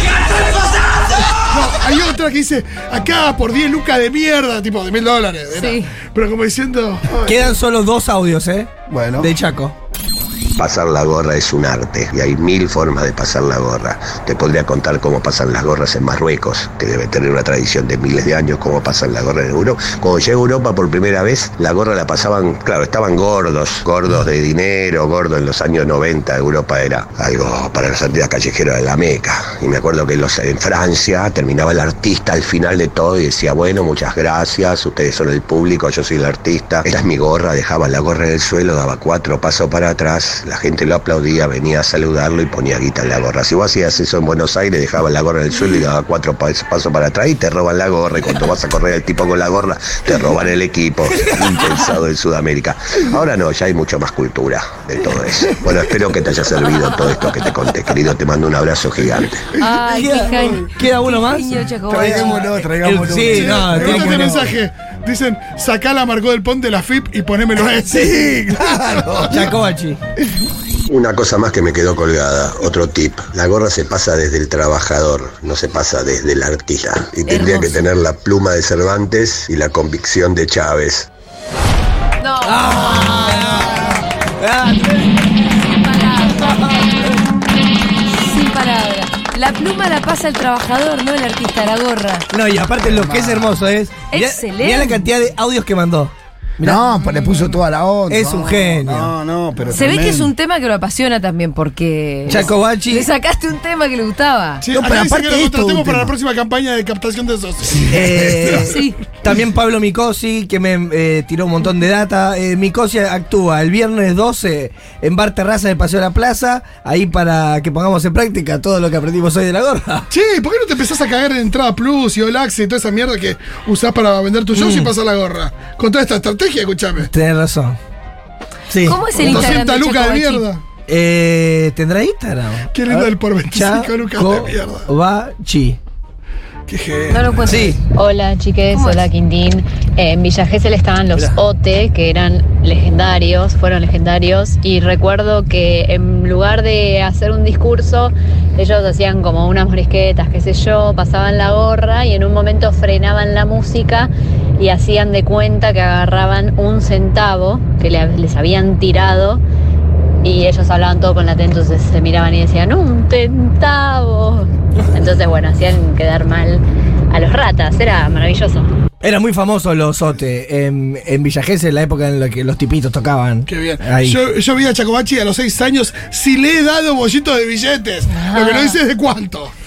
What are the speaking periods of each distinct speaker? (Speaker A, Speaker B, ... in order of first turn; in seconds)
Speaker A: 1.4-7.4, 63.3-69.4, 97.0-97.6, 104.6-108.6, 120.1-127.1, 129.2-130.6, 132.7-134.9, 136.7-137.3, 173.5-179.5
Speaker B: 5.5-5.9, 59.6-62.5, 77.3-77.8, 82.2-83.4, 85.5-86.6, 88.1-92.2, 94.1-95.1, 99.7-104.6, 108.7-109.0, 128.8-130.5, 137.1-137.8, 138.7-139.1, 178.1-178.8
Speaker C: 7.2-9.7, 59.9-64.5, 69.2-70.0, 82.4-85.4, 86.2-87.2, 92.3-96.8, 98.1-99.1, 102.3-103.1, 107.9-120.1, 124.5-124.9, 127.1-127.8, 128.7-129.6, 130.9-135.8, 137.5-137.8, 169.0-174.2
Speaker D: 8.9-9.3, 61.9-64.5, 67.9-69.5, 92.8-93.6, 96.6-100.3, 104.7-106.1, 107.7-108.7
Speaker E: 10.6-59.5, 70.9-81.1
Speaker F: 137.9-159.4, 160.2-168.7